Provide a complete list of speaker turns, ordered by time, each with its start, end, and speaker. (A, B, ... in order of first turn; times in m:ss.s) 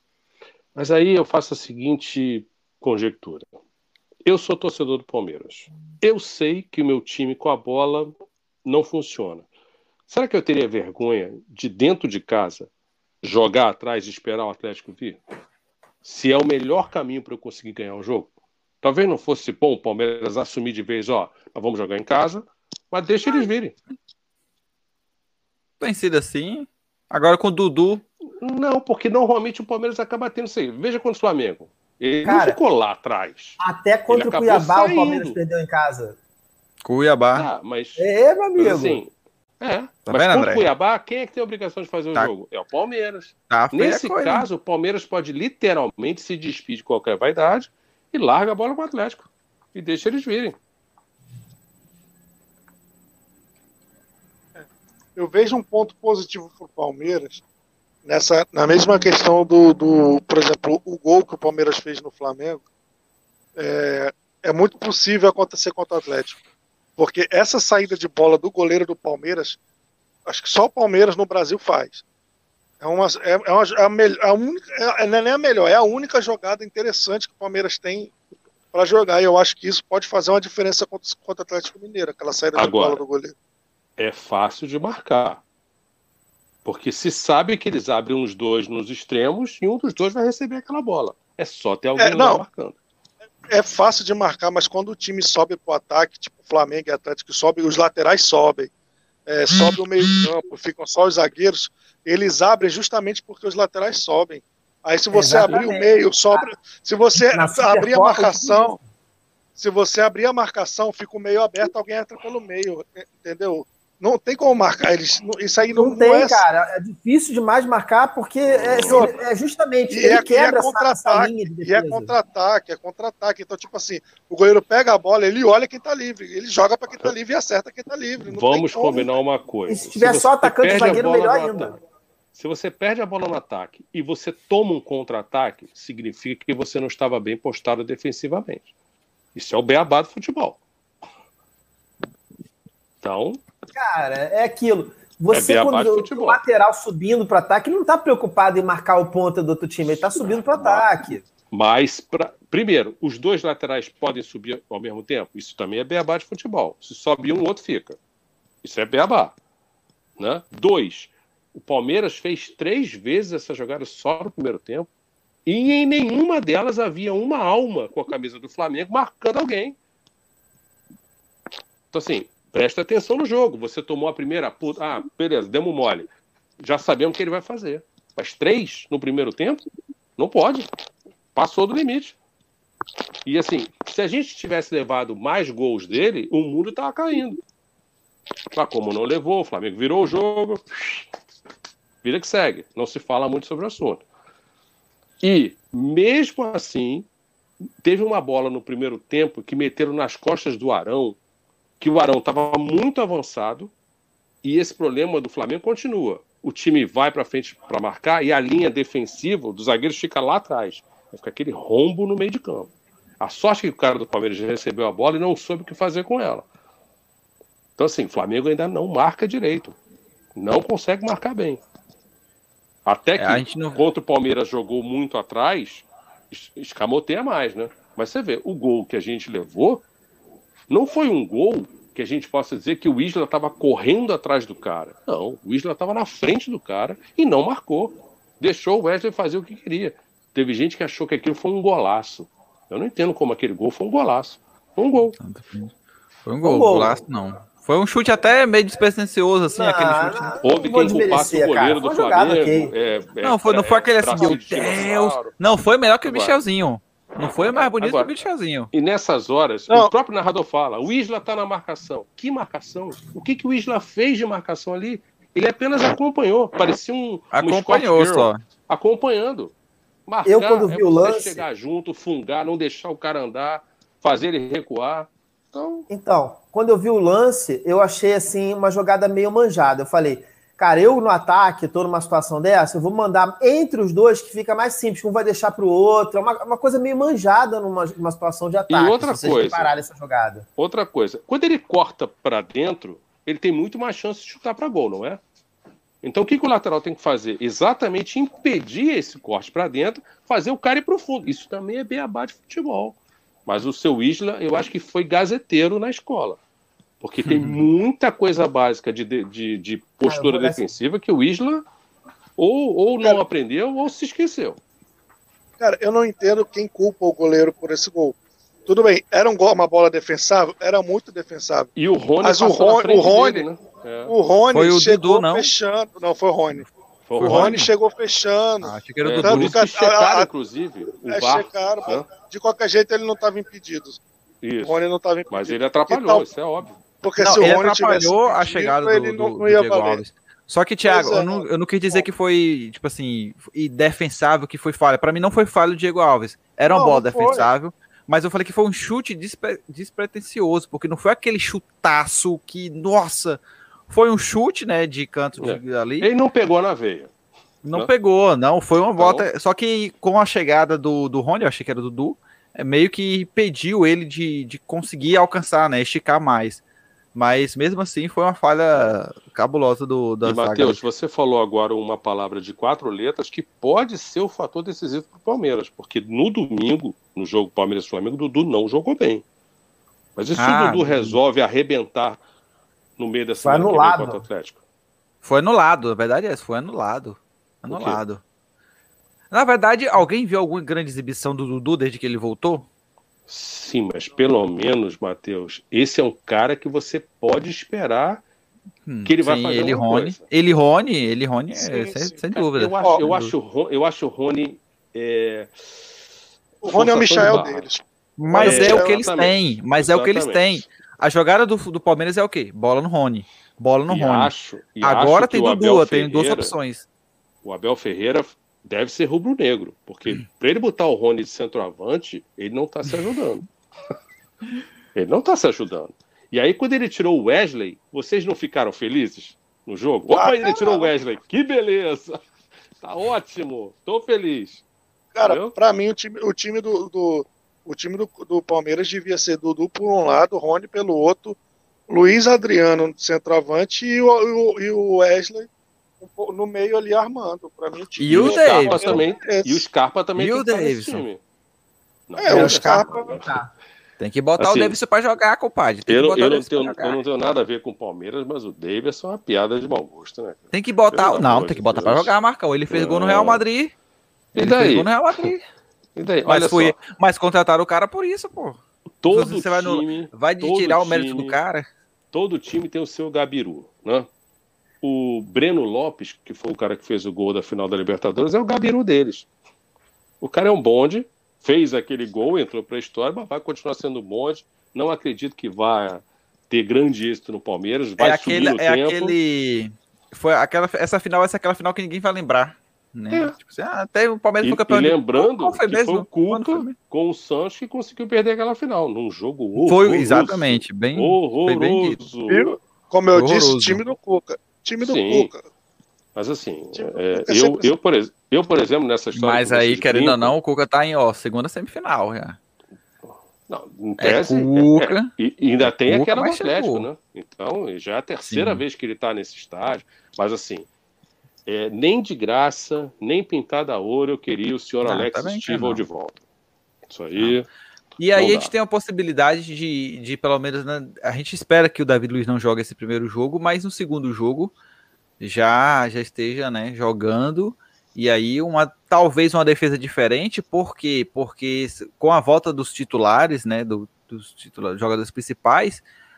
0:00.8-0:03.5 A
0:04.3-0:08.1 A
0:08.7-0:09.4 A
0:10.1-0:12.7 A
0:13.2-0:15.2 A
0:16.0-0:18.3 A
0:18.8-0:23.8 A
0:25.8-0:28.0 B
0:28.4-0:35.4 A
0:32.2-0:32.6 C
0:33.6-0:36.2 C
0:36.8-0:37.5 B
0:37.4-0:38.0 A
0:38.0-0:39.0 C
0:38.6-0:50.6 A
0:40.1-0:40.7 B
0:43.5-0:44.5 B
0:55.2-0:57.4 D
0:58.0-1:02.6 D
1:03.6-1:06.4 D
1:07.0-1:09.6 D
1:10.3-1:12.0 D
1:12.8-1:18.1 D
1:18.7-1:23.3 D
1:22.6-1:23.0 A
1:24.0-1:25.4 A
1:26.6-1:32.8 A
1:32.0-1:32.4 D
1:33.5-1:38.7 D
1:39.3-1:48.8 D
1:45.1-1:46.5 C
1:47.2-1:48.9 C
1:49.6-1:56.4 D
1:55.7-2:02.1 C
1:58.5-1:59.1 A
1:59.9-2:09.1 D
2:08.3-2:11.7 A
2:09.7-2:11.8 C
2:10.8-2:11.1 D
2:12.4-2:18.7 A
2:19.4-2:20.6 A
2:23.0-2:23.4 A
2:23.7-2:31.2 C
2:25.3-2:26.4 A
2:30.3-2:30.9 A
2:31.5-2:38.0 A
2:38.6-2:39.4 A
2:40.2-2:44.9 A
2:45.5-2:49.8 A
2:51.9-2:56.1 A
2:56.6-2:59.6 A
3:00.2-3:00.7 A
3:01.4-3:02.2 A
3:03.3-3:07.4 A
3:08.5-3:11.0 A
3:12.0-3:14.0 A
3:15.2-3:17.1 A
3:17.8-3:21.2 A
3:21.8-3:23.7 A
3:24.4-3:36.5 A
3:37.8-3:39.8 A
3:40.4-3:41.6 A
3:42.9-3:49.8 A
3:43.2-3:43.8 B
3:50.7-4:05.2 A
4:05.2-4:05.7 B
4:06.3-4:10.9 B
4:06.4-4:07.0 C
4:09.5-4:12.7 C
4:10.4-4:15.3 A
4:13.2-4:18.7 B
4:16.0-4:16.4 A
4:17.4-4:18.1 A
4:18.7-4:29.5 A
4:27.3-4:28.4 B
4:30.1-4:35.9 A
4:30.2-4:31.4 C
4:35.9-4:50.5 C
4:48.7-4:49.7 A
4:50.6-4:55.2 A
4:56.0-5:06.4 A
5:07.0-5:11.7 A
5:07.2-5:07.7 B
5:10.0-5:10.6 C
5:12.4-5:14.6 A
5:15.6-5:23.5 D
5:21.8-5:24.1 A
5:24.1-5:26.7 D
5:24.5-5:25.5 B
5:27.1-5:27.7 A
5:27.2-5:27.7 B
5:27.2-5:30.3 D
5:28.6-5:29.6 B
5:29.0-5:32.1 A
5:31.1-5:34.0 D
5:34.4-5:34.8 A
5:34.6-5:36.3 D
5:35.3-5:36.7 A
5:37.0-5:40.0 D
5:37.2-5:56.1 B
5:40.9-5:42.1 D
5:46.7-5:47.5 D
5:55.4-5:57.1 A
5:57.6-6:06.6 B
5:59.0-5:59.3 A
6:07.2-6:10.8 B
6:10.2-6:19.2 A
6:20.2-6:22.2 A
6:20.4-6:21.2 B
6:23.0-6:24.6 A
6:23.4-6:24.2 C
6:25.2-6:28.2 B
6:27.7-6:28.0 A
6:29.3-6:32.7 B
6:33.3-6:38.2 A
6:38.9-6:43.3 B
6:39.1-6:40.2 A
6:41.5-6:42.2 D
6:42.3-6:45.5 A
6:46.6-6:49.1 D
6:46.6-6:47.7 A
6:48.2-6:54.3 B
6:48.4-6:50.6 A
6:53.9-6:56.6 A
6:54.8-6:56.9 B
6:57.4-7:03.5 A
7:05.0-7:12.2 A
7:10.1-7:10.9 D
7:12.8-7:14.6 A
7:15.1-7:21.4 D
7:15.2-7:15.6 A
7:21.9-7:25.5 D
7:26.0-7:29.6 D
7:28.0-7:29.0 B
7:28.1-7:31.2 A
7:30.2-7:31.0 B
7:32.1-7:33.4 A
7:32.2-7:33.2 D
7:32.3-7:33.5 C
7:34.0-7:37.0 B
7:34.4-7:34.8 A
7:35.9-7:42.2 A
7:40.5-7:43.7 B
7:42.7-7:43.4 A
7:44.3-7:45.2 A
7:44.4-7:45.4 B
7:46.0-7:46.8 A
7:46.3-7:51.7 B
7:49.0-7:51.4 A
7:52.1-7:54.1 A
7:54.8-7:59.3 A
8:00.2-8:09.2 A
8:08.0-8:16.8 B
8:14.4-8:22.5 A
8:19.6-8:22.0 B
8:22.3-8:25.4 D
8:23.1-8:23.8 B
8:24.8-8:25.3 A
8:26.2-8:30.4 A
8:26.8-8:27.7 D
8:29.2-8:32.4 B
8:33.5-8:40.7 A
8:34.0-8:35.1 B
8:35.6-8:36.9 B
8:38.3-8:38.6 B
8:41.5-8:46.2 A
8:44.8-8:45.8 B
8:46.9-8:47.5 A
8:48.0-8:54.5 B
8:48.2-8:48.5 A
8:55.2-9:05.8 B